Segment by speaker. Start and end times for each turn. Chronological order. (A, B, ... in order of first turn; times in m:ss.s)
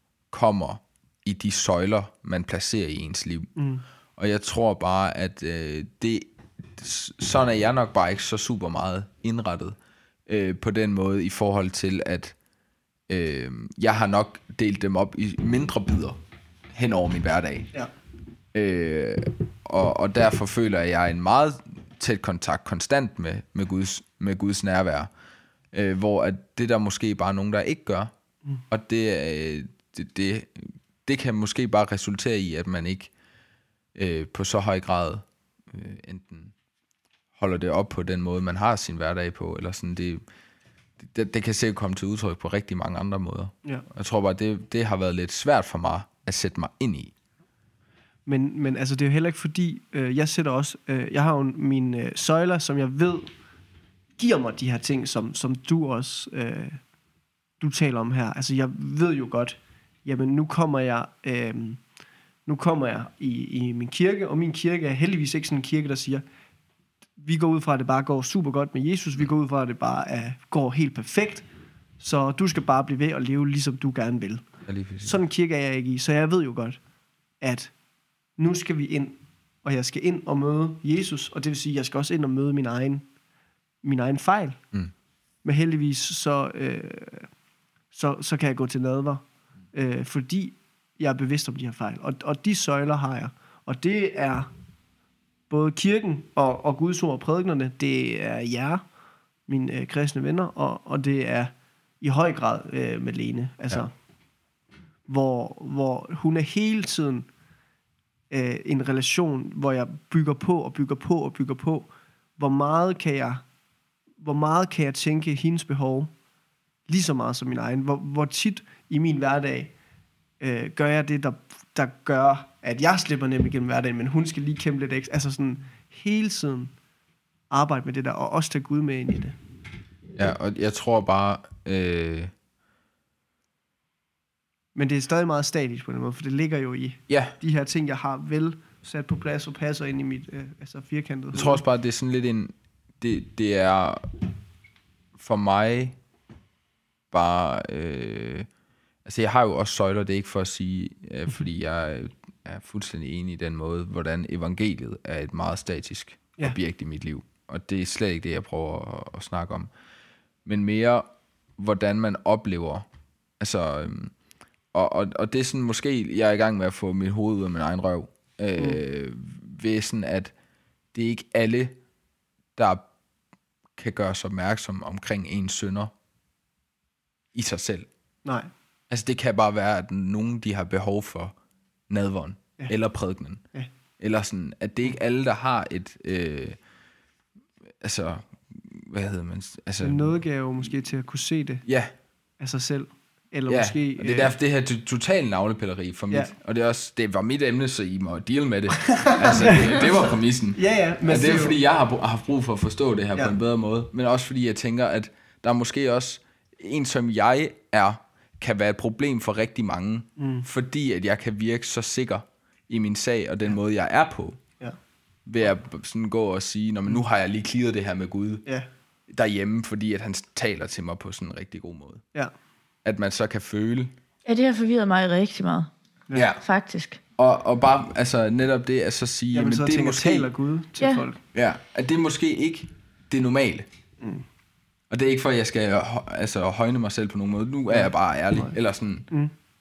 0:00.3-0:03.5 A
0:03.6-0:03.8 B
0:04.2-0:12.3 A
0:13.1-0:16.2 A
0:16.7-0:17.7 A
0:18.5-0:25.1 A
0:25.7-0:28.1 A
0:28.7-0:33.1 A
0:33.9-0:36.5 A
0:37.4-0:40.2 A
0:41.0-0:47.1 A
0:48.2-0:53.3 B
0:54.2-0:56.8 B
0:57.6-1:01.8 B
1:02.4-1:06.2 B
1:07.2-1:11.4 B
1:12.0-1:16.8 B
1:14.6-1:15.2 A
1:17.4-1:17.7 B
1:18.4-1:23.1 B
1:23.8-1:24.6 B
1:25.4-1:27.3 B
1:27.9-1:34.5 B
1:35.5-1:38.8 B
1:39.5-1:43.9 B
1:45.1-1:47.3 B
1:48.3-1:53.4 B
1:54.2-1:56.1 B
1:56.9-1:59.7 B
2:00.4-2:06.7 B
2:07.5-2:09.4 B
2:10.1-2:12.3 A
2:14.7-2:21.6 B
2:17.1-2:17.4 A
2:21.3-2:24.0 A
2:25.2-2:26.0 A
2:27.1-2:28.5 A
2:29.0-2:39.7 A
2:40.4-2:42.9 A
2:43.4-2:44.1 A
2:44.7-2:50.3 A
2:50.9-2:51.8 A
2:52.6-2:52.9 A
2:53.8-2:55.9 A
2:57.3-2:57.9 A
2:58.2-2:58.5 B
2:58.9-3:01.3 A
3:01.9-3:03.4 A
3:04.0-3:06.6 A
3:07.8-3:10.2 A
3:09.8-3:11.6 B
3:11.6-3:11.9 A
3:12.4-3:14.3 B
3:13.5-3:34.4 A
3:18.8-3:20.0 B
3:20.6-3:21.6 B
3:30.2-3:30.4 B
3:35.2-3:38.4 A
3:39.1-3:42.0 A
3:42.8-3:43.9 A
3:44.2-3:45.7 C
3:46.1-3:46.4 A
3:46.4-3:47.0 C
3:47.2-3:50.3 A
3:49.3-3:51.2 B
3:50.8-3:51.0 C
3:51.3-3:53.6 A
3:54.9-3:59.0 A
3:57.7-3:58.5 B
3:59.1-3:59.3 B